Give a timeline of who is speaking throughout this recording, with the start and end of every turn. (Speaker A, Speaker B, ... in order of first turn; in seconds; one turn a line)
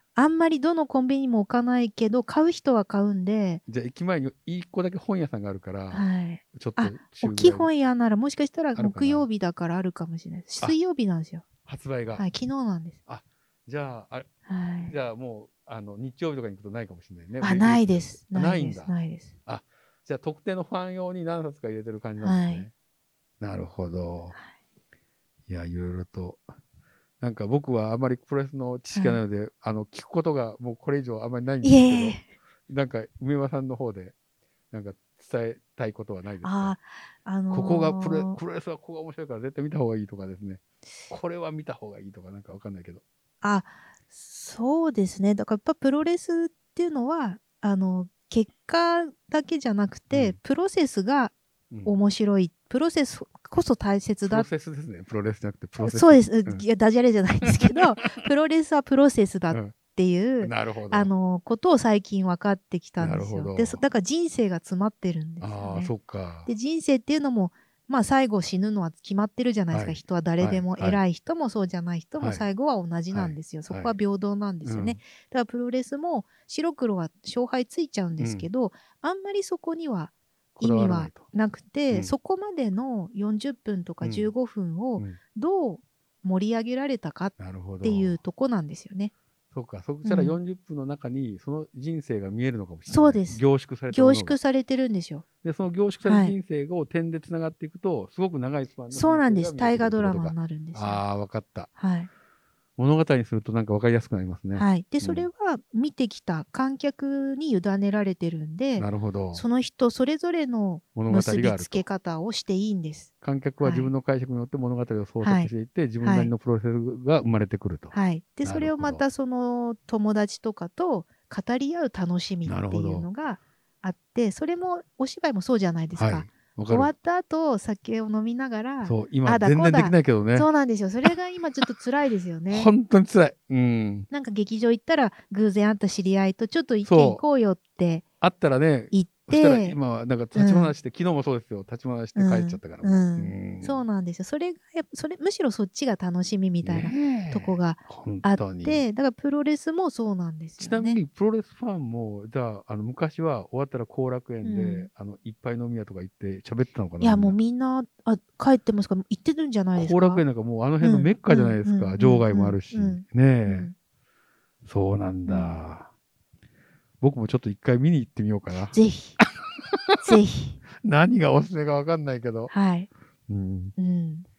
Speaker A: 0.1-3.6
Speaker B: 3.7-7.7
Speaker A: 5.9-11.4
Speaker B: 8.8-9.2
Speaker B: 11.6-12.3
Speaker A: 12.2-13.0
Speaker B: 13.1-14.3
Speaker A: 14.5-14.9
Speaker B: 14.9-18.9
Speaker A: 17.4-19.3
Speaker B: 19.4-22.7
Speaker A: 22.2-22.6
Speaker B: 23.4-24.3
Speaker B: 25.5-26.4
Speaker B: 27.2-34.1
Speaker A: 28.9-29.2
Speaker A: 31.6-32.2
Speaker B: 34.7-36.7
Speaker A: 36.4-38.4
Speaker B: 37.5-43.0
Speaker A: 43.4-51.3
Speaker B: 50.1-50.4
Speaker A: 51.8-54.5
Speaker B: 54.2-56.6
Speaker A: 55.8-65.9
Speaker B: 60.4-61.1
Speaker B: 63.0-63.8
Speaker B: 65.4-66.5
Speaker A: 66.5-89.1
Speaker B: 69.7-71.0
Speaker B: 72.2-72.5
Speaker B: 73.1-73.9
Speaker B: 74.6-75.0
Speaker B: 78.2-78.5
Speaker B: 80.6-81.2
Speaker B: 84.0-84.3
Speaker B: 87.4-88.2
Speaker B: 89.5-94.4
Speaker A: 90.0-90.4
Speaker A: 92.9-95.2
Speaker B: 95.4-101.7
Speaker A: 96.0-96.3
Speaker A: 98.9-101.0
Speaker A: 101.8-102.1
Speaker B: 102.8-105.3
Speaker A: 104.5-113.9
Speaker B: 108.8-109.4
Speaker B: 110.9-111.8
Speaker B: 113.2-119.0
Speaker A: 115.2-116.3
Speaker A: 117.9-132.7
Speaker B: 122.5-123.1
Speaker B: 126.0-126.9
Speaker B: 128.8-130.5
Speaker B: 132.5-134.1
Speaker A: 134.1-138.0
Speaker B: 136.8-137.2
Speaker B: 138.2-143.8
Speaker A: 138.9-139.8
Speaker A: 140.3-140.7
Speaker A: 142.1-151.0
Speaker B: 146.6-148.8
Speaker B: 150.6-157.3
Speaker A: 154.4-154.9
Speaker A: 157.0-160.2
Speaker B: 159.7-163.7
Speaker A: 160.8-163.7
Speaker B: 164.6-165.9
Speaker A: 165.2-165.5
Speaker B: 167.0-170.2
Speaker A: 168.7-169.2
Speaker A: 170.0-170.6
Speaker B: 170.8-172.5
Speaker A: 172.5-172.9
Speaker B: 173.3-173.7
Speaker A: 173.8-174.2